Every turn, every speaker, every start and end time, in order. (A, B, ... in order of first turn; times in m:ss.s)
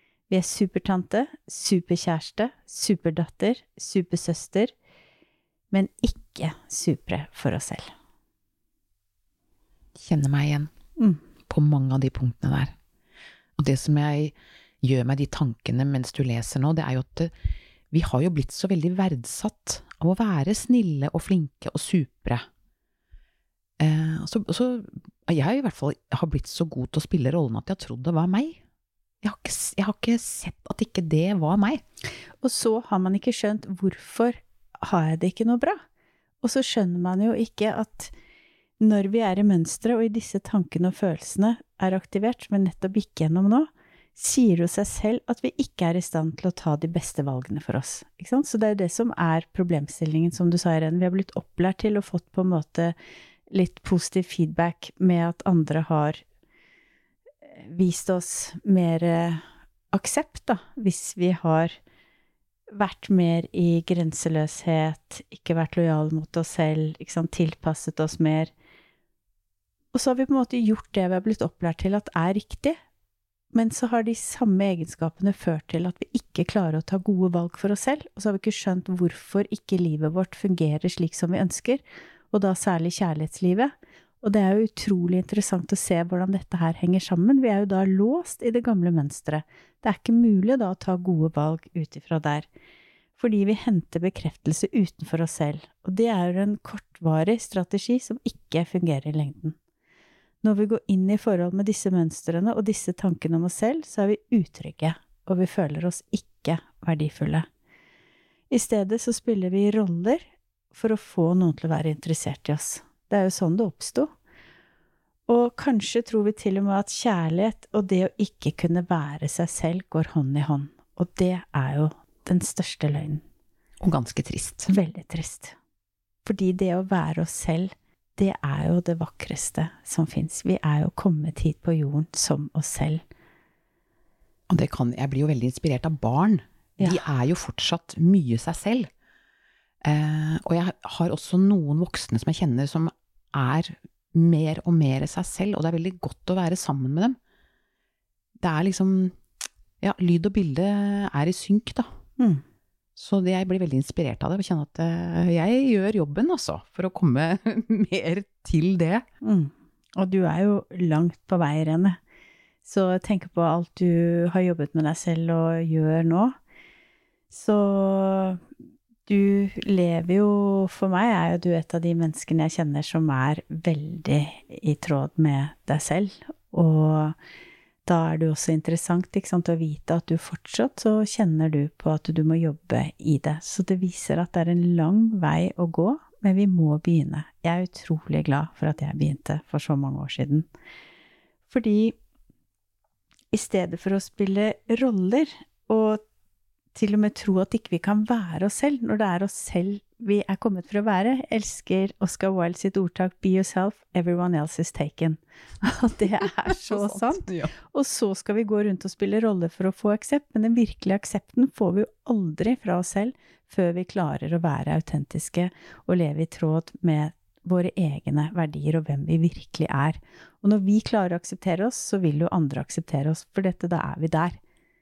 0:00.3-0:04.7 A
0:05.7-0:07.9 A
0:10.0-0:10.7 B
0:11.5-0:12.7 B
0:13.6-0:17.3 B
0:17.9-0:22.4 B
0:23.8-0:28.6 B
0:29.2-0:31.8 B
0:32.4-0:35.8 A
0:36.4-0:38.1 A
0:38.8-0:52.9 A
0:53.5-0:56.2 A
0:57.5-1:01.7 A
1:02.7-1:08.5 A
1:09.9-1:12.8 A
1:13.5-1:32.5 A
1:33.2-1:39.6 A
1:40.4-1:47.4 A
1:48.5-1:54.1 A
1:55.3-2:03.2 A
2:03.8-2:04.7 B
2:04.7-2:05.6 A
2:06.2-2:13.0 A
2:14.5-2:18.9 B
2:19.8-2:27.2 B
2:28.4-2:29.2 B
2:29.8-2:31.9 B
2:32.2-2:32.4 A
2:33.0-2:39.0 B
2:39.2-2:42.0 A
2:42.6-2:46.3 A
2:47.3-2:48.4 A
2:49.1-2:57.2 A
2:57.8-3:10.5 A
3:11.5-3:12.0 A
3:13.3-3:16.0 A
3:16.7-3:44.4 A
3:26.1-3:27.5 B